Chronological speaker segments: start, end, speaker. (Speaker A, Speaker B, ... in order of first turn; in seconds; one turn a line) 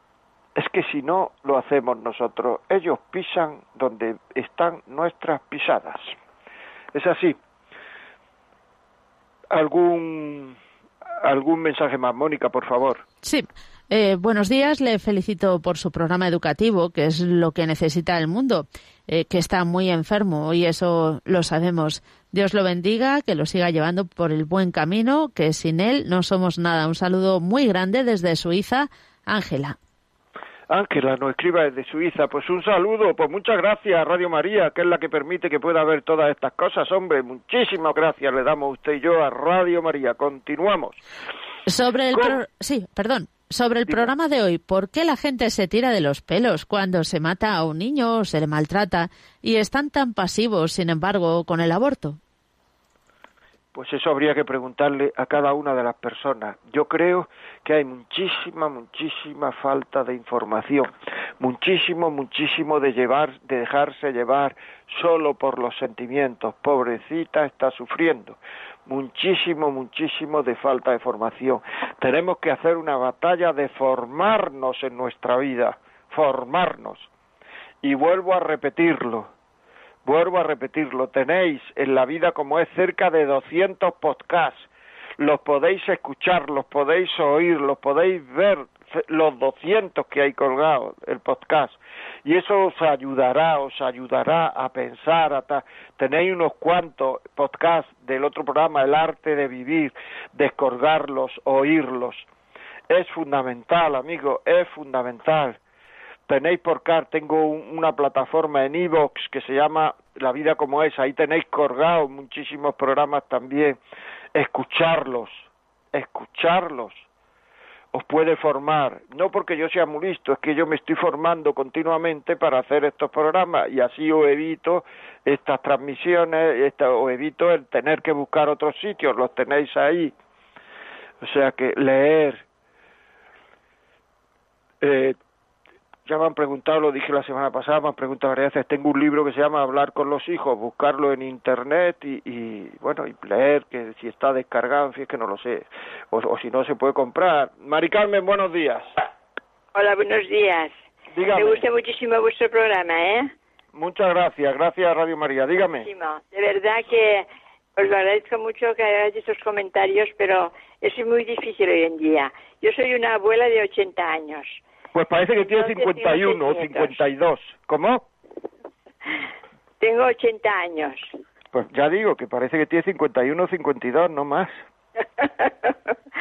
Speaker A: 0.6-6.2
Speaker A: 6.9-7.4
Speaker A: 9.5-10.6
Speaker A: 11.2-13.0
Speaker B: 13.2-29.8
Speaker A: 30.7-41.0
Speaker B: 41.7-52.2
Speaker A: 42.1-42.4
Speaker A: 53.8-77.1
Speaker A: 77.8-79.3
Speaker A: 80.0-102.3
Speaker A: 102.9-105.6
Speaker A: 106.3-113.8
Speaker A: 114.3-117.1
Speaker A: 117.9-130.1
Speaker A: 131.2-132.5
Speaker A: 134.8-135.2
Speaker A: 136.1-148.9
Speaker C: 149.7-150.7
Speaker A: 151.1-151.6
Speaker C: 151.3-153.3
Speaker A: 153.7-155.9
Speaker C: 155.8-164.6
Speaker A: 164.9-168.1
Speaker C: 165.5-167.0
Speaker C: 169.8-171.1
Speaker A: 171.5-174.6
Speaker C: 175.2-175.7